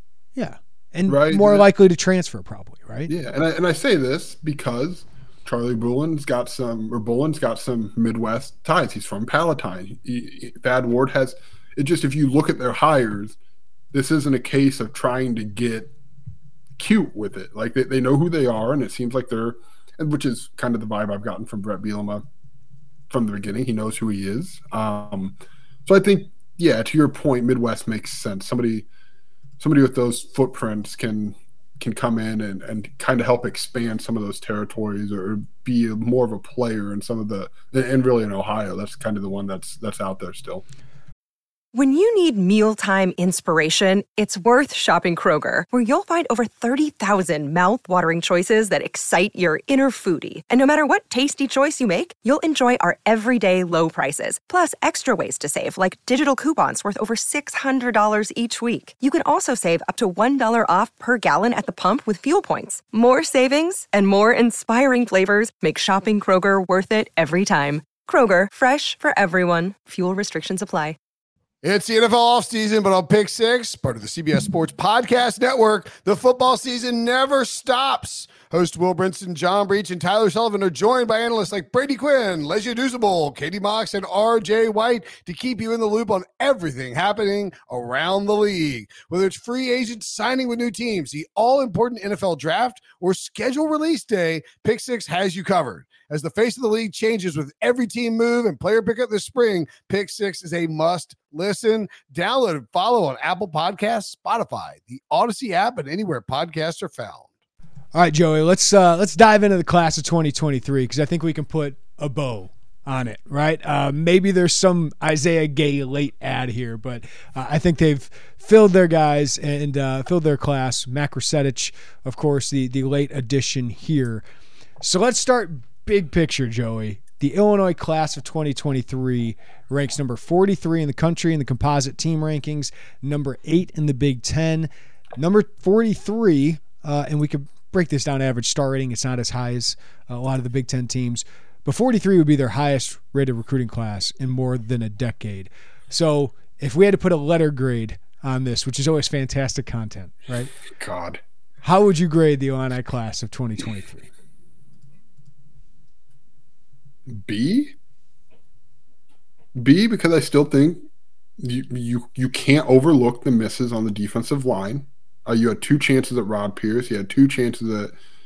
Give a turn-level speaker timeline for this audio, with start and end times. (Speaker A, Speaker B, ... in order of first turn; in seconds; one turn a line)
Speaker A: 0.3-3.1
Speaker B: 1.1-1.6
Speaker B: 3.1-13.3
Speaker B: 13.9-15.9
Speaker B: 16.8-22.2
Speaker B: 23.1-28.9
Speaker B: 29.6-40.6
Speaker C: 41.7-71.0
Speaker D: 71.6-107.2
Speaker A: 107.9-124.2
Speaker A: 124.8-150.5
Speaker B: 150.7-151.2
Speaker A: 151.6-154.1
Speaker B: 157.1-157.7
Speaker B: 159.5-160.8
Speaker B: 161.4-167.9